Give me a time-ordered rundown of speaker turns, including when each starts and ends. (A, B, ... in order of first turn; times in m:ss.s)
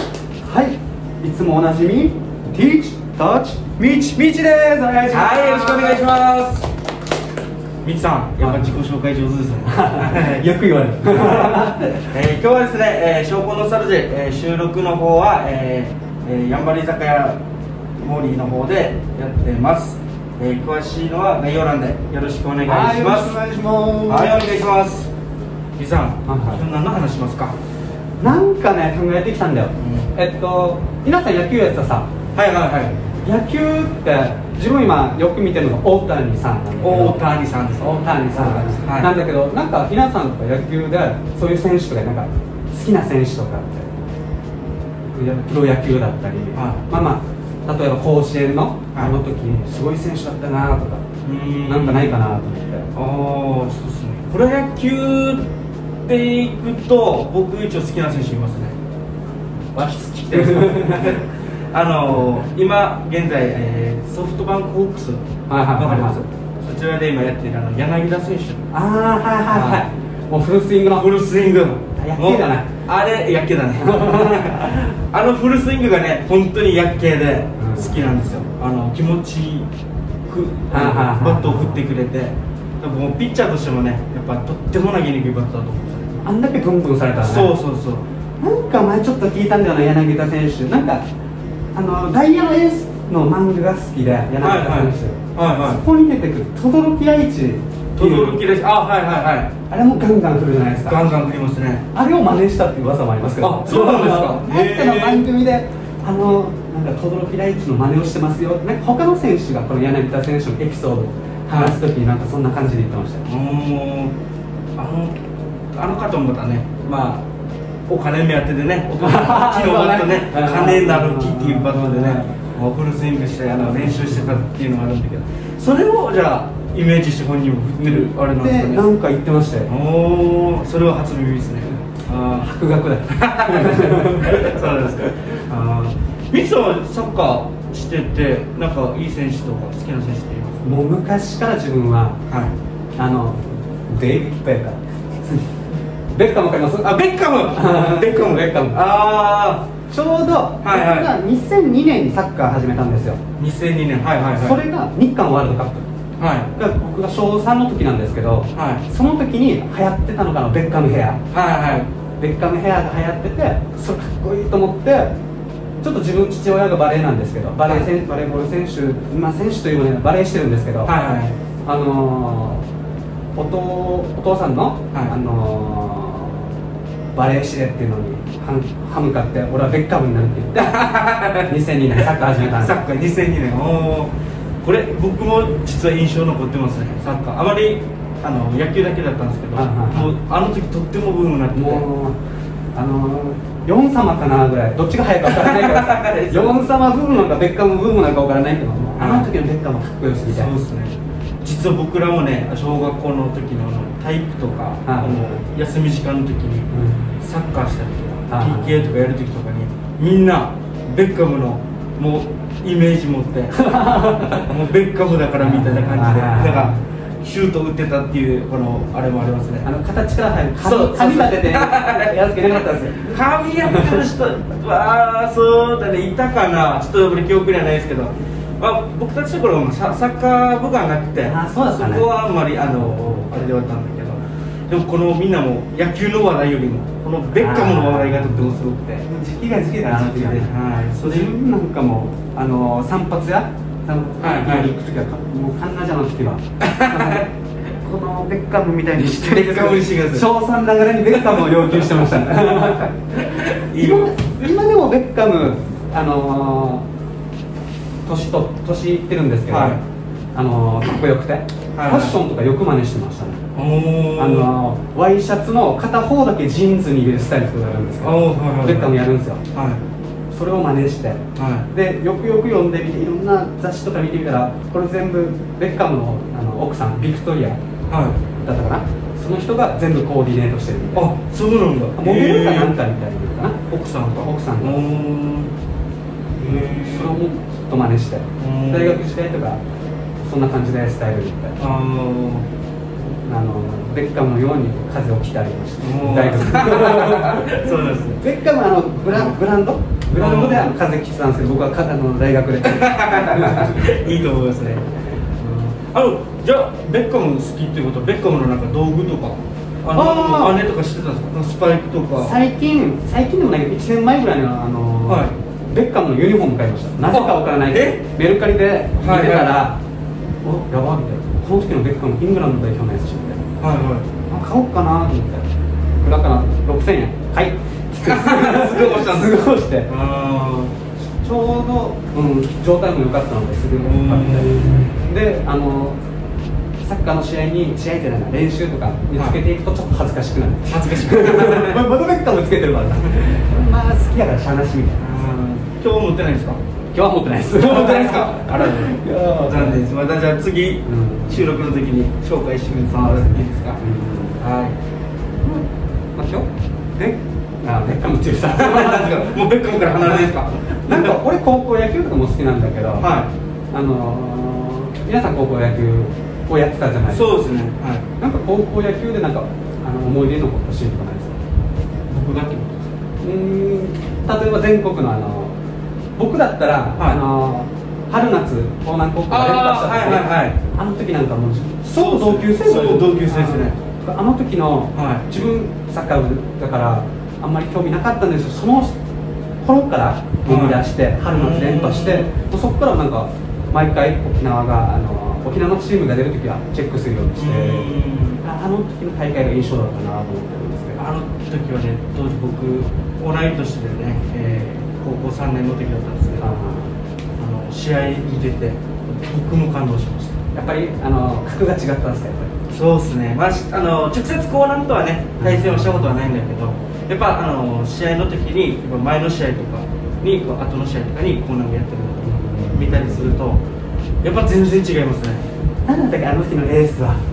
0:00.4-0:06.0 A
0:05.1-0:06.7 B
0:07.8-0:10.4 B
0:08.4-0:08.8 A
0:09.7-0:12.0 A
0:11.1-0:11.6 B
0:12.1-0:17.4 B
0:18.0-0:23.4 B
0:22.6-0:24.5 A
0:24.1-0:25.1 B
0:25.8-0:27.6 B
0:26.2-0:26.6 A
0:28.2-0:32.1 A
0:29.8-0:30.1 B
0:32.3-0:32.9 B
0:33.2-0:37.2 A
0:36.8-0:39.1 B
0:37.8-0:43.9 A
0:45.1-0:51.0 A
0:46.6-0:46.8 B
0:51.2-0:52.2 B
0:51.6-0:52.9 A
0:52.9-0:55.4 B
0:56.0-0:58.8 B
0:59.7-1:05.2 B
1:00.3-1:01.2 A
1:05.5-1:06.2 A
1:05.8-1:08.6 B
1:08.7-1:11.1 A
1:09.5-1:09.8 B
1:10.9-1:19.7 B
1:11.9-1:12.7 A
1:13.8-1:14.8 A
1:17.6-1:18.1 A
1:20.3-1:26.2 B
1:20.7-1:21.8 A
1:26.2-1:27.6 A
1:27.2-1:28.0 B
1:28.4-1:31.0 A
1:31.7-1:38.4 A
1:34.4-1:35.8 B
1:38.0-1:39.5 B
1:39.7-1:41.0 A
1:40.8-1:41.8 B
1:41.9-1:53.2 A
1:43.4-1:45.3 B
1:51.5-1:51.8 B
1:53.2-1:54.1 B
1:54.8-1:55.2 B
1:55.7-1:57.2 B
1:57.9-2:08.8 B
1:59.0-2:02.4 A
2:03.5-2:04.4 A
2:07.8-2:09.7 A
2:09.7-2:12.5 B
2:12.4-2:15.2 A
2:13.1-2:20.7 B
2:20.6-2:22.2 A
2:22.3-2:22.5 B
2:23.0-2:25.5 A
2:26.1-2:28.8 A
2:26.8-2:29.7 B
2:29.9-2:33.2 A
2:30.6-2:31.1 B
2:33.4-2:34.6 B
2:34.3-2:35.9 A
2:36.2-2:36.5 B
2:36.5-2:41.2 A
2:38.5-2:38.8 B
2:41.3-2:41.9 B
2:42.2-2:45.1 A
2:45.8-2:50.9 A
2:47.6-2:47.9 B
2:50.8-2:51.3 B
2:51.6-2:52.6 A
2:53.3-2:56.4 A
2:57.1-3:02.8 A
3:00.8-3:01.4 B
3:02.2-3:04.1 B
3:04.6-3:11.8 B
3:09.5-3:10.1 A
3:11.5-3:12.2 A
3:12.7-3:20.5 A
3:15.2-3:16.6 B
3:19.0-3:19.3 B
3:20.3-3:26.7 B
3:24.8-3:25.4 A
3:26.7-3:27.1 A
3:27.2-3:33.5 B
3:28.3-3:28.9 A
3:33.5-3:34.5 A
3:34.5-3:39.7 B
3:35.4-3:36.8 A
3:39.6-3:44.0 A
3:40.6-3:42.1 B
3:43.1-3:59.0 B
3:51.2-3:53.3 A
3:57.4-4:00.5 A
3:59.8-4:01.3 B
4:01.0-4:13.0 A
4:04.2-4:04.7 B
4:06.6-4:07.2 B
4:09.0-4:10.3 B
4:11.2-4:12.2 B
4:13.2-4:14.2 B
4:13.8-4:16.8 A
4:18.0-4:19.8 A
4:19.5-4:19.8 B
4:20.3-4:23.4 A
4:21.8-4:22.1 B
4:23.5-4:24.5 B
4:24.2-4:29.4 A
4:28.0-4:29.0 B
4:29.5-4:29.8 B
4:30.3-4:37.6 A
4:31.4-4:31.7 B
4:37.9-4:38.2 B
4:38.4-4:41.1 A
4:40.9-4:42.8 B
4:41.9-4:43.6 A
4:43.7-4:45.5 B
4:44.2-4:44.8 A
4:46.4-4:47.2 B
4:46.4-4:49.6 A
4:48.4-4:49.0 B
4:50.2-4:51.6 A
4:51.6-4:52.5 B
4:53.2-5:04.2 A
4:55.8-4:58.2 B
4:59.1-4:59.4 B
5:00.1-5:00.7 B
5:02.8-5:04.8 B
5:05.4-5:12.3 B
5:09.9-5:10.6 A
5:12.2-5:19.8 A
5:15.1-5:15.3 B
5:17.1-5:18.0 B
5:19.0-5:19.6 B
5:20.4-5:23.4 A
5:23.6-5:24.1 B
5:24.3-5:29.9 A
5:28.0-5:30.7 B
5:31.2-5:36.0 A
5:33.8-5:34.8 B
5:36.8-5:45.0 A
5:40.7-5:41.8 B
5:45.0-5:46.6 B
5:46.9-5:49.8 A
5:47.6-5:53.8 B
5:50.8-5:51.5 A
5:52.9-5:54.4 A
5:54.4-5:54.7 B
5:55.4-5:59.3 A
5:58.5-6:01.1 B
6:00.0-6:03.1 A
6:03.0-6:03.3 B
6:03.7-6:07.3 A
6:07.1-6:08.0 B
6:08.2-6:11.4 A
6:12.1-6:12.9 B
6:13.2-6:15.5 A
6:16.2-6:29.0 A
6:19.3-6:20.6 B
6:21.8-6:23.8 B
6:24.9-6:25.3 B
6:29.6-6:41.0 A
6:30.4-6:32.3 B
6:37.4-6:38.4 B
6:41.0-6:46.5 B
6:46.3-6:46.9 A
6:47.4-6:50.4 B
6:50.5-6:52.5 A
6:52.7-7:03.6 B
6:55.4-6:56.2 A
7:02.2-7:03.4 A
7:04.2-7:05.4 B
7:05.8-7:07.2 A